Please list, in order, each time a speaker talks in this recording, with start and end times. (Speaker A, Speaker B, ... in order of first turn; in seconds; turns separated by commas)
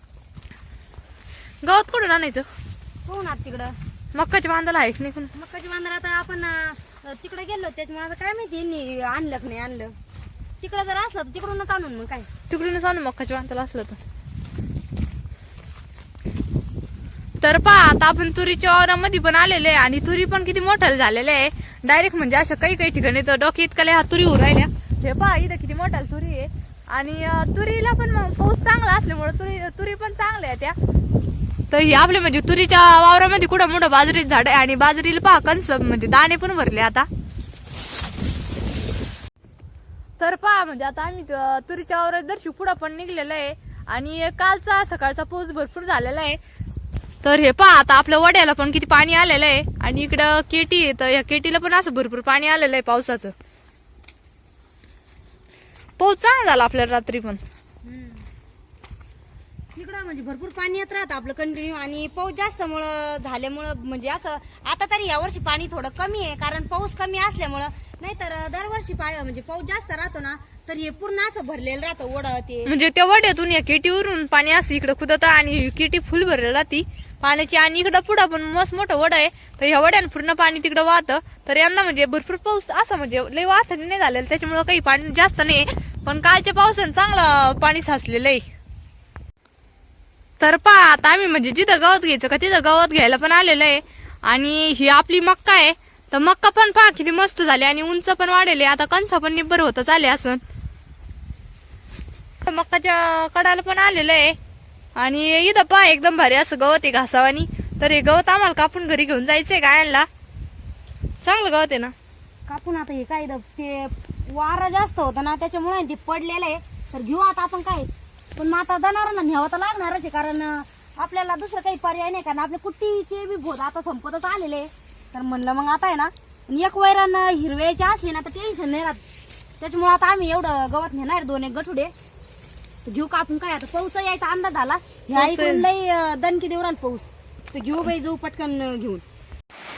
Speaker A: 1.6-2.5, Speaker B: 3.0-3.8, Speaker A: 4.1-5.3, Speaker B: 5.3-9.9, Speaker B: 10.6-12.3, Speaker A: 12.5-14.0, Speaker A: 17.4-30.8, Speaker A: 31.7-37.1, Speaker A: 40.2-46.4, Speaker A: 47.2-53.4, Speaker A: 56.0-57.4, Speaker B: 57.9-58.3, Speaker B: 59.8-72.7, Speaker A: 72.7-88.5, Speaker A: 90.4-100.4, Speaker A: 102.4-104.4, Speaker A: 105.0-110.1, Speaker A: 111.2-111.9, Speaker B: 112.5-129.0, Speaker B: 129.6-131.9, Speaker B: 132.8-139.0, Speaker A: 135.1-135.7